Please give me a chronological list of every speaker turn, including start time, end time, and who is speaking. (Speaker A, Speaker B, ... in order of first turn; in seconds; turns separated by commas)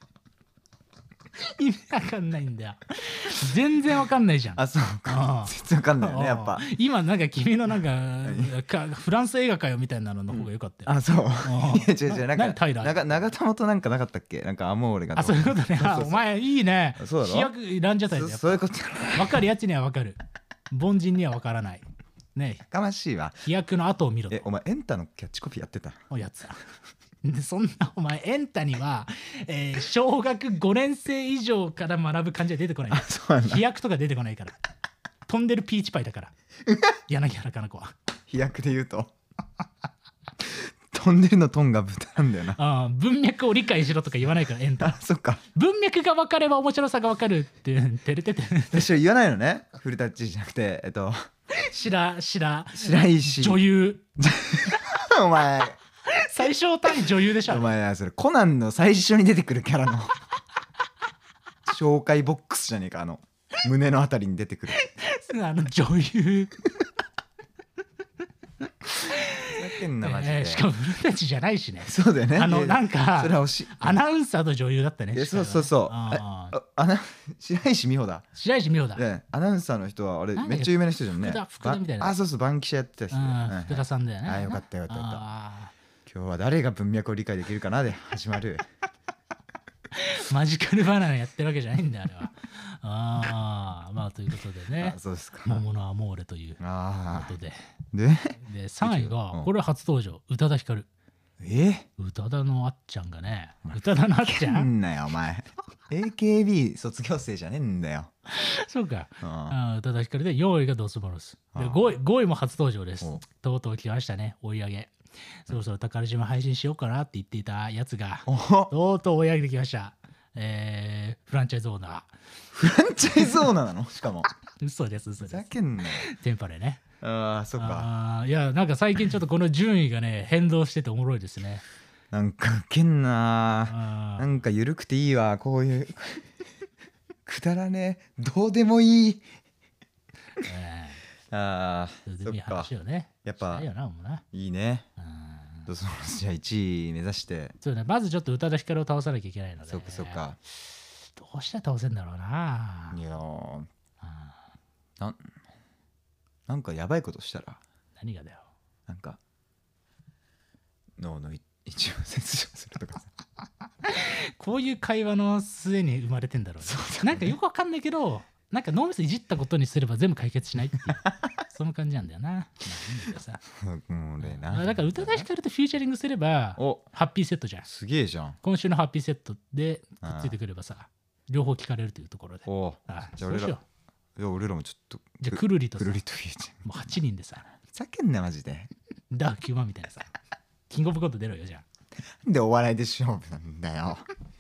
Speaker A: 1.4-12.9, Speaker B: 4.5-6.6, Speaker B: 8.2-8.5, Speaker B: 10.3-16.2, Speaker A: 15.2-22.6, Speaker B: 17.0-17.5, Speaker B: 18.1-19.4, Speaker B: 22.7-23.4, Speaker A: 23.4-24.5, Speaker B: 24.3-26.0, Speaker A: 26.1-26.6, Speaker A: 27.2-34.5, Speaker B: 32.9-33.6, Speaker A: 35.3-36.3, Speaker A: 37.1-37.9, Speaker B: 38.3-39.1, Speaker B: 40.4-42.6, Speaker A: 42.6-45.0, Speaker B: 44.8-45.4, Speaker A: 45.5-48.9, Speaker B: 48.7-51.2, Speaker A: 51.5-54.1, Speaker B: 52.8-53.6, Speaker B: 54.2-55.8, Speaker A: 56.1-57.7, Speaker B: 57.4-60.1, Speaker B: 61.7-64.8, Speaker A: 64.7-66.6, Speaker A: 68.9-76.6, Speaker B: 69.6-70.7, Speaker B: 71.8-74.0, Speaker B: 75.1-78.3, Speaker A: 78.4-79.0, Speaker B: 79.0-85.2, Speaker A: 80.4-82.2, Speaker A: 83.1-85.7, Speaker B: 86.1-88.7, Speaker A: 89.9-97.6, Speaker B: 94.8-95.7, Speaker B: 96.6-97.3, Speaker B: 97.9-99.5, Speaker A: 98.4-100.9, Speaker B: 101.4-101.9, Speaker A: 102.0-104.7, Speaker B: 103.7-108.1, Speaker A: 108.3-122.1, Speaker B: 109.2-109.6, Speaker B: 111.5-111.8, Speaker B: 118.3-118.7, Speaker B: 122.5-124.3, Speaker A: 124.6-126.8, Speaker B: 125.2-126.1, Speaker B: 127.0-127.9, Speaker A: 127.6-131.6, Speaker B: 132.1-136.3, Speaker A: 133.7-134.3, Speaker B: 137.3-139.2, Speaker A: 140.4-141.0, Speaker B: 141.3-142.7, Speaker A: 142.1-144.2, Speaker B: 143.2-143.7, Speaker B: 144.3-144.9, Speaker A: 145.0-145.7, Speaker B: 145.7-147.6, Speaker A: 147.6-150.2, Speaker B: 149.7-150.4, Speaker A: 151.0-153.0, Speaker B: 152.9-153.7, Speaker A: 154.0-154.4, Speaker B: 156.5-157.6, Speaker A: 158.0-158.5, Speaker B: 158.9-159.2, Speaker B: 161.0-163.1, Speaker A: 163.8-173.4, Speaker B: 166.6-167.3, Speaker B: 173.5-175.3, Speaker A: 174.2-177.7, Speaker B: 176.6-176.9, Speaker B: 177.7-178.4, Speaker A: 178.4-183.6, Speaker B: 180.0-180.3, Speaker B: 182.5-183.6, Speaker B: 184.2-186.7, Speaker A: 185.2-186.0, Speaker A: 186.6-187.5, Speaker B: 187.6-188.7, Speaker A: 189.1-190.1, Speaker A: 190.7-191.7, Speaker B: 192.2-194.0